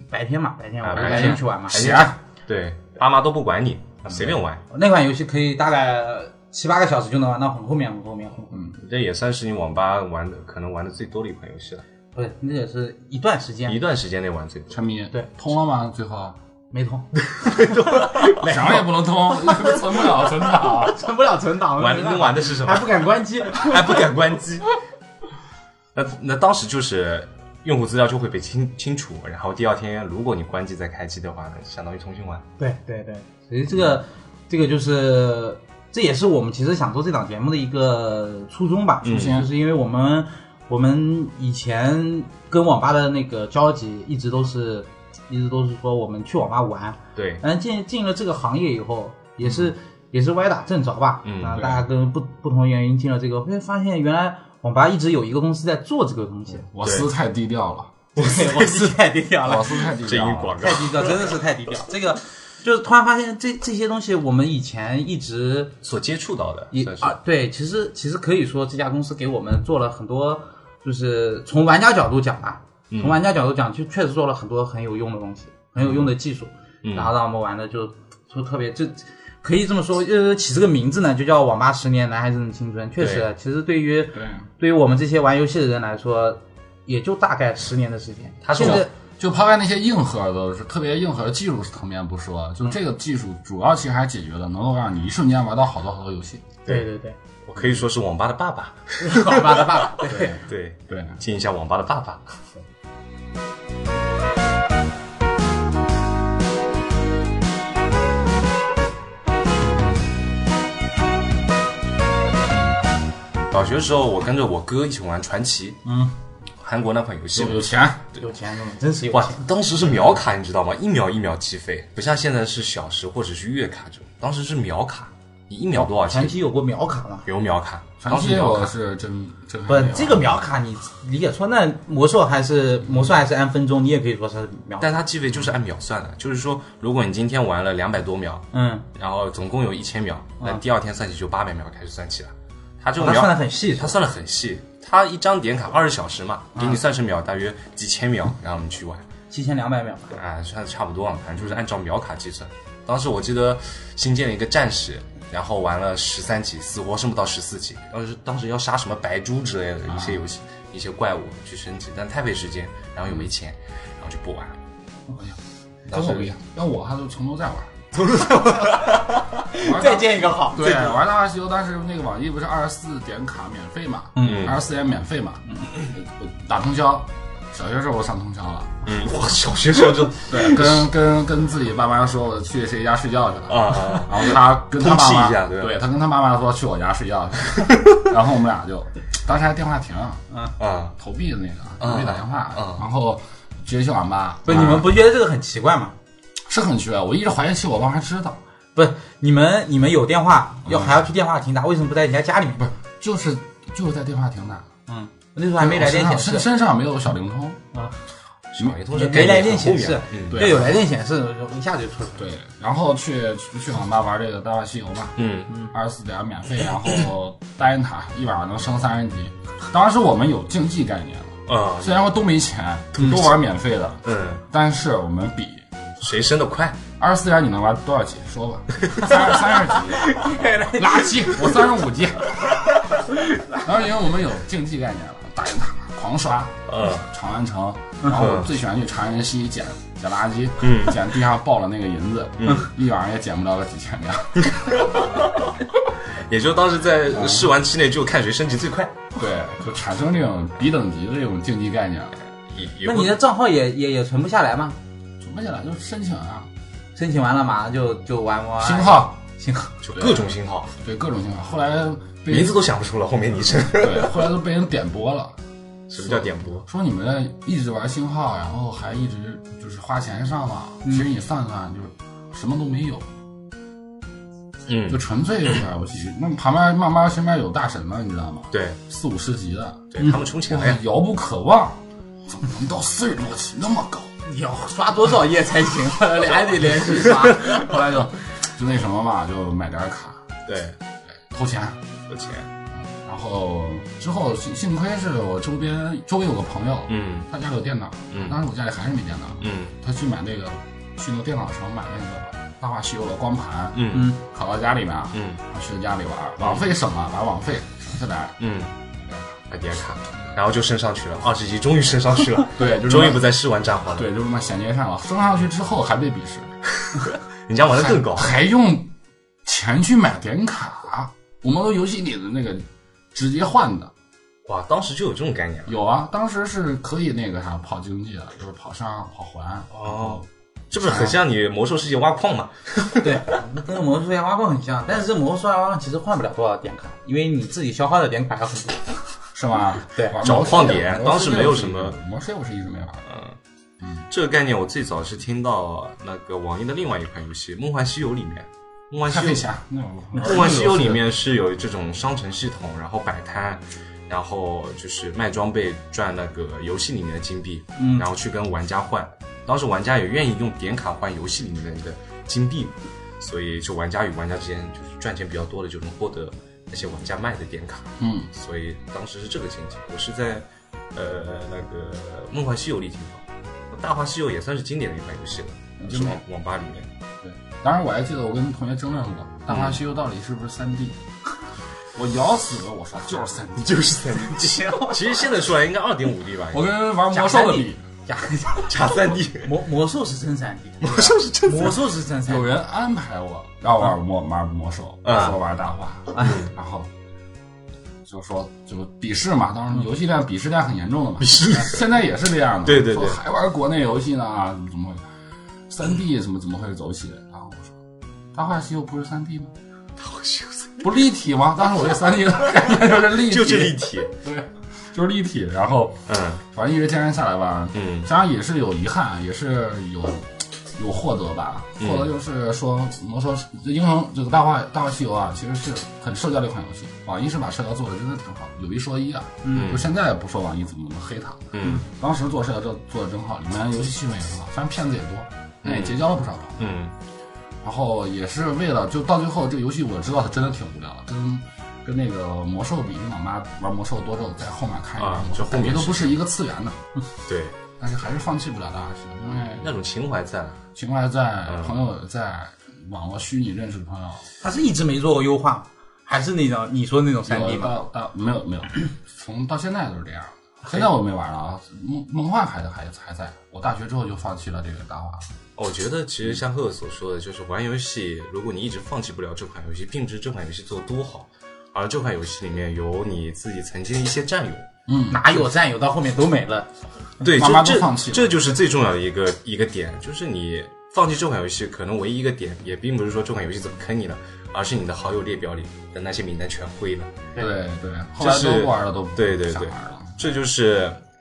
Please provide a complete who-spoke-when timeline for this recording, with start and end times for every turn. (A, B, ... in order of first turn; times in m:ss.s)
0:00.1-0:01.8 A
0:00.8-0:04.6 B
0:01.0-0:02.2 C
0:04.1-0:04.4 C
0:04.7-0:08.6 A
0:08.5-0:08.8 C
0:08.8-0:11.8 B
0:12.2-0:13.8 A
0:13.7-0:14.8 B
0:14.7-0:16.4 C
0:16.7-0:18.8 A
0:17.3-0:18.4 B
0:18.4-0:21.0 C
0:20.8-0:24.0 A
0:21.8-0:24.7 B
0:26.0-0:32.4 B
0:32.6-0:56.7 A
0:39.0-0:39.4 B
0:39.1-0:39.5 C
0:47.2-0:47.4 B
0:51.2-0:51.6 B
0:51.5-0:51.8 C
0:56.6-0:58.1 C
0:56.8-0:57.1 B
0:58.2-0:59.0 B
0:58.2-0:59.9 A
0:59.4-1:00.7 C
1:00.0-1:01.3 B
1:00.6-1:05.7 A
1:05.8-1:07.2 B
1:06.7-1:28.9 A
1:12.9-1:13.2 B
1:16.8-1:17.1 B
1:23.0-1:23.3 B
1:24.1-1:24.4 C
1:28.4-1:28.9 B
1:28.6-1:36.6 C
1:36.7-1:37.2 A
1:37.4-1:42.4 B
1:39.0-1:40.4 A
1:40.1-1:41.2 C
1:53.5-1:55.8 B
1:55.8-1:56.1 A
1:56.6-1:57.7 B
1:57.3-1:58.1 C
1:58.2-1:59.4 A
1:59.1-2:06.4 B
2:05.8-2:07.3 A
2:07.3-2:08.7 B
2:08.0-2:10.4 C
2:09.7-2:14.9 A
2:14.8-2:29.0 B
2:18.5-2:18.8 A
2:23.0-2:24.0 A
2:26.6-2:26.8 A
2:29.3-2:30.2 A
2:30.1-2:44.6 B
2:39.9-2:40.2 C
2:45.9-2:47.9 C
2:45.9-2:46.3 B
2:48.0-2:49.0 B
2:48.4-2:50.9 A
2:49.5-2:58.9 C
2:54.2-2:54.5 A
2:54.2-2:54.6 B
2:58.8-3:00.9 B
3:00.3-3:10.2 C
3:03.5-3:05.8 B
3:07.5-3:08.0 B
3:10.6-3:11.0 B
3:11.0-3:14.9 C
3:11.8-3:12.8 B
3:14.4-3:16.0 A
3:16.5-3:18.4 C
3:18.8-3:22.7 A
3:20.7-3:21.0 C
3:22.6-3:24.7 C
3:24.9-3:26.5 A
3:25.6-3:27.6 C
3:28.5-3:30.6 B
3:28.9-3:32.2 A
3:30.3-3:30.7 C
3:32.2-3:45.6 C
3:35.2-3:35.5 B
3:41.5-3:42.1 B
3:43.0-3:43.4 B
3:44.0-3:44.4 B
3:46.0-3:46.8 B
3:47.0-3:52.6 C
3:49.7-3:51.5 A
3:53.5-4:05.0 C
3:56.7-3:57.1 B
3:58.1-3:58.5 B
4:00.6-4:01.1 B
4:02.4-4:02.7 B
4:04.4-4:05.5 B
4:06.3-4:09.0 B
4:07.1-4:07.5 C
4:09.2-4:12.2 C
4:12.5-4:13.2 B
4:12.8-4:14.8 A
4:15.2-4:16.5 C
4:17.0-4:19.7 A
4:18.6-4:19.2 C
4:19.8-4:20.7 B
4:20.0-4:22.6 C
4:22.3-4:24.3 B
4:23.7-4:25.4 C
4:25.9-4:26.6 B
4:26.0-4:33.1 C
4:34.7-4:35.0 B
4:34.9-4:44.1 C
4:38.5-4:38.8 B
4:39.9-4:40.8 B
4:44.3-4:47.7 A
4:46.7-4:50.2 C
4:50.5-4:50.8 B
4:51.3-4:51.8 C
4:52.1-4:52.5 B
4:52.7-5:08.4 C
4:56.9-4:57.3 B
4:58.1-4:58.4 B
4:59.4-4:59.8 B
5:03.7-5:04.2 B
5:03.9-5:04.2 A
5:05.1-5:05.4 B
5:06.4-5:06.7 B
5:08.4-5:08.7 B
5:09.1-5:09.4 C
5:09.5-5:14.1 B
5:12.6-5:13.3 C
5:13.9-5:16.5 C
5:16.8-5:18.4 B
5:17.7-5:18.9 C
5:19.4-5:23.9 C
5:24.5-5:25.8 B
5:25.7-5:31.2 C
5:29.7-5:33.2 B
5:33.0-5:39.0 A
5:39.3-5:43.0 C
5:40.2-5:42.0 B
5:43.1-5:43.4 B
5:44.1-5:49.5 B
5:49.1-5:51.0 C
5:50.2-6:16.9 B
5:57.8-5:58.1 A
6:08.0-6:08.3 C
6:15.8-6:16.2 C
6:17.2-6:21.0 C
6:19.5-6:19.8 B
6:21.9-6:24.0 C
6:23.6-6:26.7 B
6:24.4-6:25.0 A
6:26.5-6:27.8 C
6:27.1-6:32.5 A
6:28.7-6:29.6 B
6:30.8-6:31.8 B
6:32.3-6:36.9 C
6:35.0-6:35.4 B
6:36.2-6:36.5 B
6:38.0-6:45.0 C
6:41.2-6:42.0 B
6:42.6-6:43.2 B
6:45.7-6:47.8 C
6:48.3-6:49.5 C
6:50.0-6:50.9 B
6:50.8-7:16.7 C
6:53.0-6:54.1 B
6:56.1-6:56.4 B
6:57.7-6:58.1 B
7:01.8-7:02.1 B
7:09.4-7:09.7 A
7:09.5-7:09.9 B
7:11.5-7:11.8 B
7:15.6-7:16.0 B
7:16.6-7:16.9 B
7:17.6-7:26.8 C
7:25.0-7:26.2 B
7:27.3-7:27.6 B
7:27.8-7:29.7 C
7:29.4-7:30.6 B
7:30.8-7:34.3 C
7:31.5-7:31.8 B
7:34.4-7:37.7 A
7:37.2-7:45.3 C
7:45.6-7:54.7 B
7:54.9-7:55.4 C
7:55.1-7:56.7 A
7:57.2-8:07.2 B
7:57.3-7:58.4 C
8:07.4-8:10.2 C
8:08.2-8:11.0 B